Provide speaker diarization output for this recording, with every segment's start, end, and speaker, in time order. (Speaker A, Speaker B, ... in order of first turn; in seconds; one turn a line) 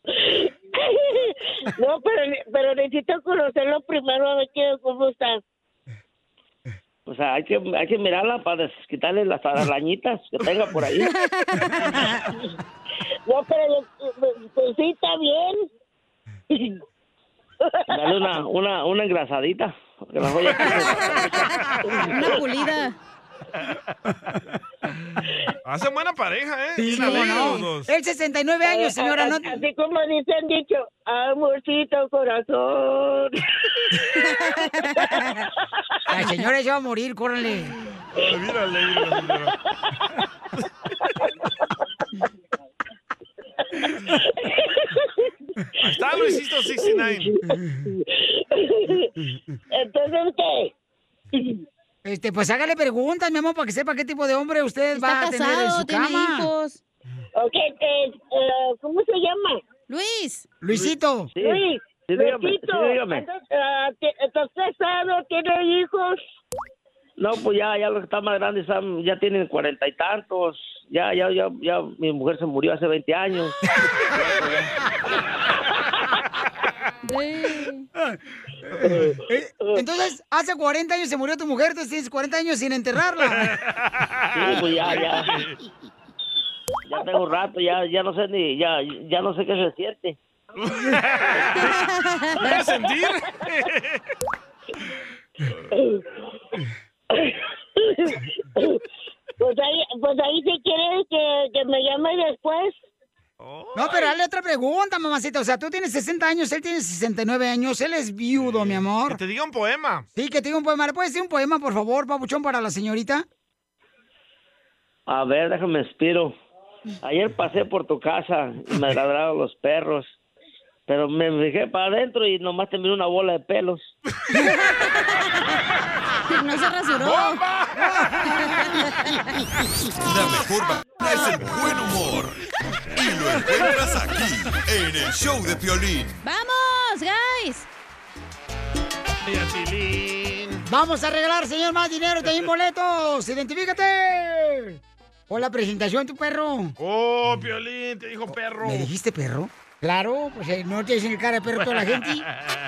Speaker A: 0.1-5.4
Speaker B: 7.0-11.1
Speaker C: 11.2-11.7
Speaker A: 13.3-15.6
Speaker A: 16.5-16.8
Speaker A: 17.9-18.1
Speaker B: 17.9-21.3
Speaker C: 20.9-22.9
Speaker D: 25.6-27.9
Speaker E: 26.8-29.6
Speaker C: 27.0-27.6
Speaker A: 28.6-33.4
Speaker C: 34.4-35.5
Speaker E: 36.1-37.7
Speaker D: 38.1-39.5
Speaker A: 43.8-45.3
Speaker D: 45.8-47.3
Speaker A: 46.1-49.1
Speaker A: 49.7-50.7
Speaker A: 51.3-51.6
Speaker E: 52.0-56.5
Speaker C: 54.9-56.8
Speaker A: 57.4-59.6
Speaker C: 59.9-60.5
Speaker E: 60.6-61.3
Speaker B: 61.4-63.2
Speaker A: 61.4-66.2
Speaker B: 67.2-73.5
Speaker B: 74.1-74.7
Speaker C: 77.1-77.9
Speaker E: 78.7-83.5
Speaker B: 78.8-79.2
Speaker D: 83.3-85.6
Speaker B: 84.3-85.3
Speaker B: 86.9-90.2
Speaker D: 90.6-94.0
Speaker C: 91.7-92.4
Speaker A: 95.7-96.0
Speaker A: 97.1-98.8
Speaker A: 99.4-102.7
Speaker D: 103.4-104.1
Speaker E: 103.7-109.2
Speaker D: 108.3-110.0
Speaker E: 110.1-113.2
Speaker B: 115.1-116.3
Speaker B: 117.0-120.1
Speaker B: 120.9-123.9
Speaker C: 124.5-125.2
Speaker C: 126.3-127.4
Speaker D: 127.0-128.5
Speaker C: 128.4-129.2
Speaker F: 130.0-132.4
Speaker F: 132.9-136.2
Speaker C: 136.2-137.7
Speaker D: 139.2-140.6
Speaker E: 140.7-146.8
Speaker D: 146.8-148.9
Speaker E: 148.3-152.2